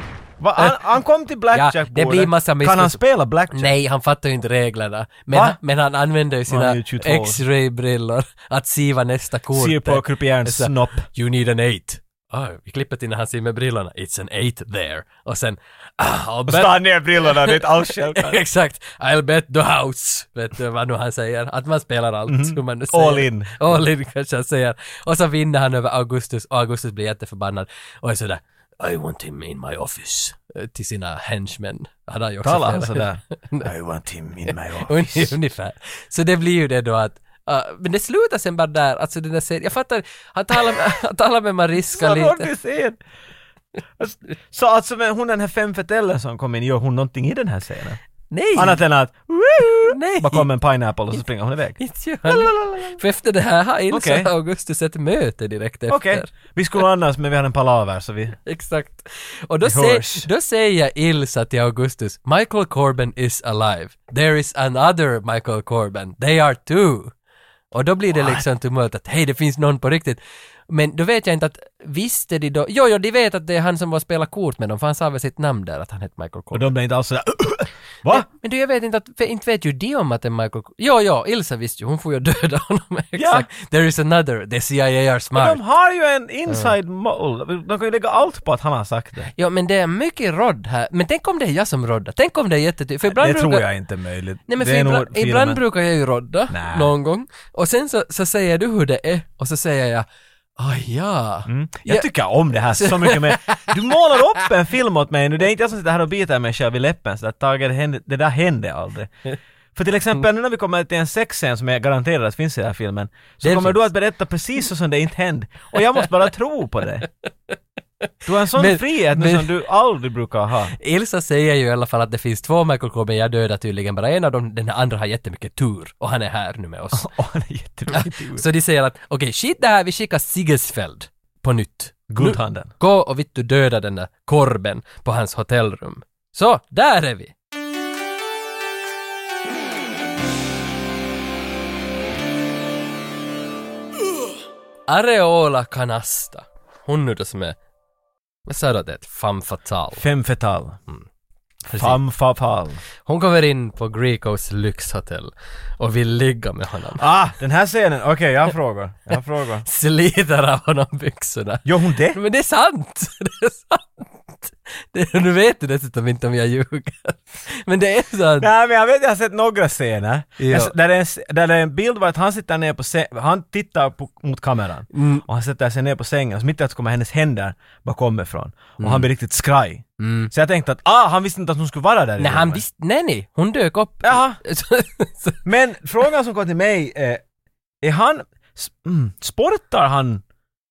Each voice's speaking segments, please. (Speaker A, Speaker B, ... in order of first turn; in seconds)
Speaker A: 0.4-3.7, 5.3-5.6, 6.5-7.4, 9.5-11.1, 16.5-18.4, 22.3-23.9, 32.4-35.4, 41.9-43.0, 44.0-48.0, 48.5-53.0, 53.9-54.3, 55.9-58.4, 59.6-60.3, 68.1-68.4, 76.5-78.3, 83.2-83.5, 85.3-89.3, 93.1-95.6, 96.5-96.9, 101.5-109.1, 109.8-117.1, 118.3-120.8, 126.9-128.4, 132.1-132.7, 150.0-150.8, 151.7-152.8, 157.0-159.7, 161.7-162.2, 168.4-182.6, 184.0-184.4, 185.4-187.2, 187.8-190.2
Speaker B: 1.5-33.7, 34.5-42.5, 48.3-48.8, 49.9-50.5, 51.8-56.3, 58.5-67.1, 67.7-76.7, 78.1-85.6, 89.3-93.7, 94.5-100.1, 100.6-102.1, 102.7-104.1, 113.4-113.9, 118.5-119.5, 120.8-127.1, 127.9-137.3, 144.9-147.6, 148.5-150.0, 151.7-152.0, 153.0-157.0, 159.7-168.5, 170.4-170.7, 174.9-175.2, 178.8-179.1, 180.0-180.3, 182.2-185.4